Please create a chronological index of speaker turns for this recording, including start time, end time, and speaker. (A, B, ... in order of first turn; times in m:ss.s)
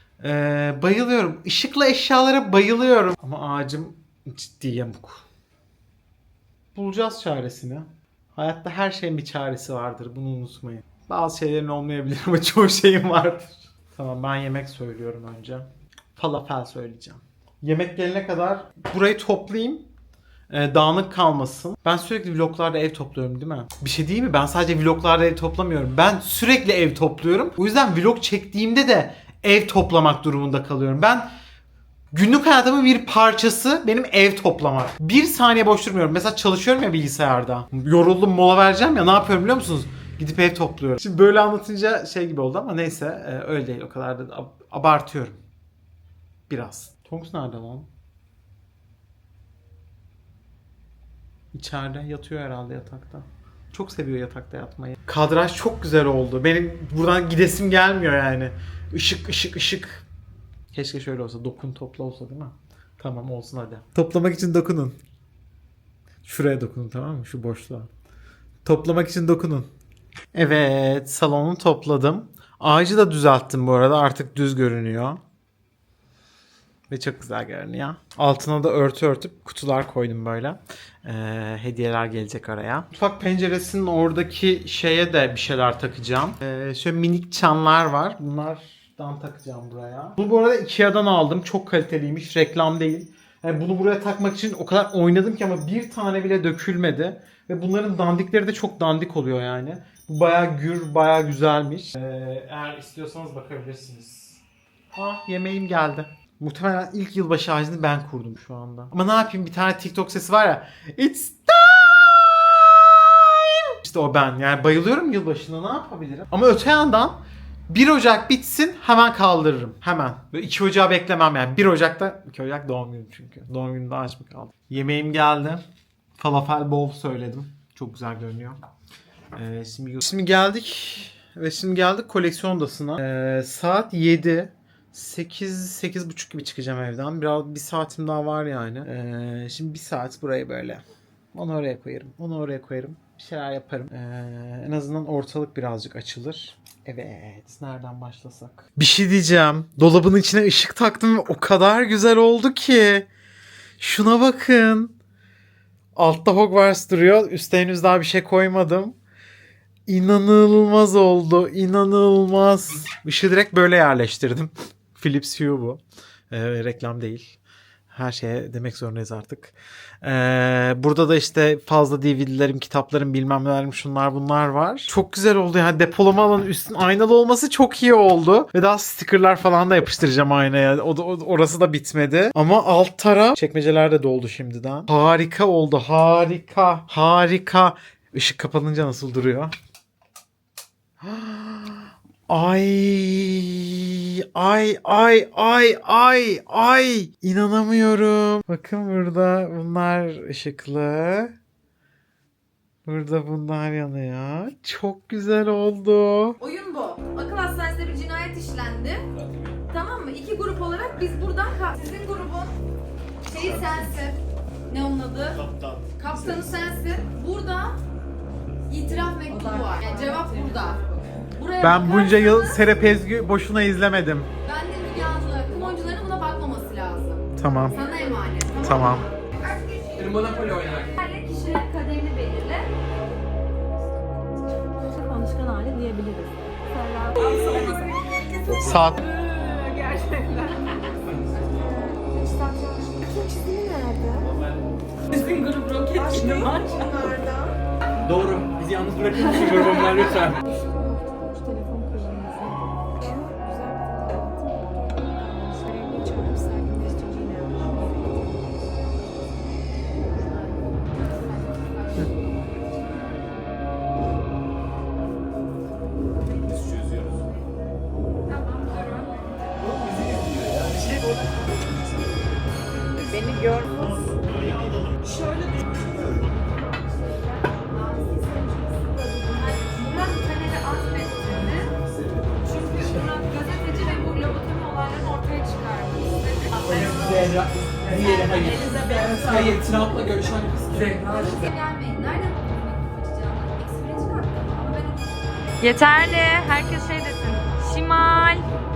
0:00.2-0:05.2 A
0:06.7-0:19.9 A
0:20.5-0:31.3 A
0:32.1-0:45.4 A
0:46.5-0:47.9 A
0:51.5-1:00.0 A
1:00.7-1:05.0 A
1:06.2-1:07.9 A
1:08.6-1:09.7 A
1:10.3-1:15.2 A
1:16.9-1:44.4 A
1:44.9-2:05.6 A
2:06.2-2:08.6 A
2:09.3-2:20.8 A
2:21.3-2:33.1 A
2:33.8-2:35.0 A
2:35.9-2:39.0 A
2:39.9-2:45.8 A
2:46.3-2:47.4 A
2:47.9-3:09.5 A
3:11.0-3:21.3 A
3:22.8-3:26.4 A
3:26.4-3:29.1 B
3:29.7-3:32.5 B
3:33.2-3:37.8 B
3:35.5-3:35.8 A
3:38.7-3:40.8 B
3:41.3-3:42.6 B
3:41.6-3:44.3 A
3:44.4-3:52.7 B
3:47.4-3:47.8 A
3:48.6-3:49.1 A
3:50.2-3:50.7 C
3:54.9-3:57.8 D
3:57.1-4:00.8 B
3:58.5-3:59.1 A
3:59.4-4:00.4 D
4:01.3-4:01.9 B
4:01.6-4:04.3 D
4:05.1-4:07.5 B
4:05.1-4:06.0 C
4:06.1-4:07.1 D
4:08.1-4:10.4 C
4:08.9-4:10.2 A
4:10.5-4:18.4 D
4:21.2-4:22.1 B
4:29.7-4:31.0 C
4:30.7-4:31.2 A
4:33.0-4:33.7 B
4:33.8-4:34.7 A
4:35.1-4:35.4 B
4:37.7-4:38.5 B
4:38.2-4:39.7 D
4:39.3-4:41.7 B
4:42.4-4:50.2 B
4:46.7-4:51.4 C
4:50.8-4:58.5 B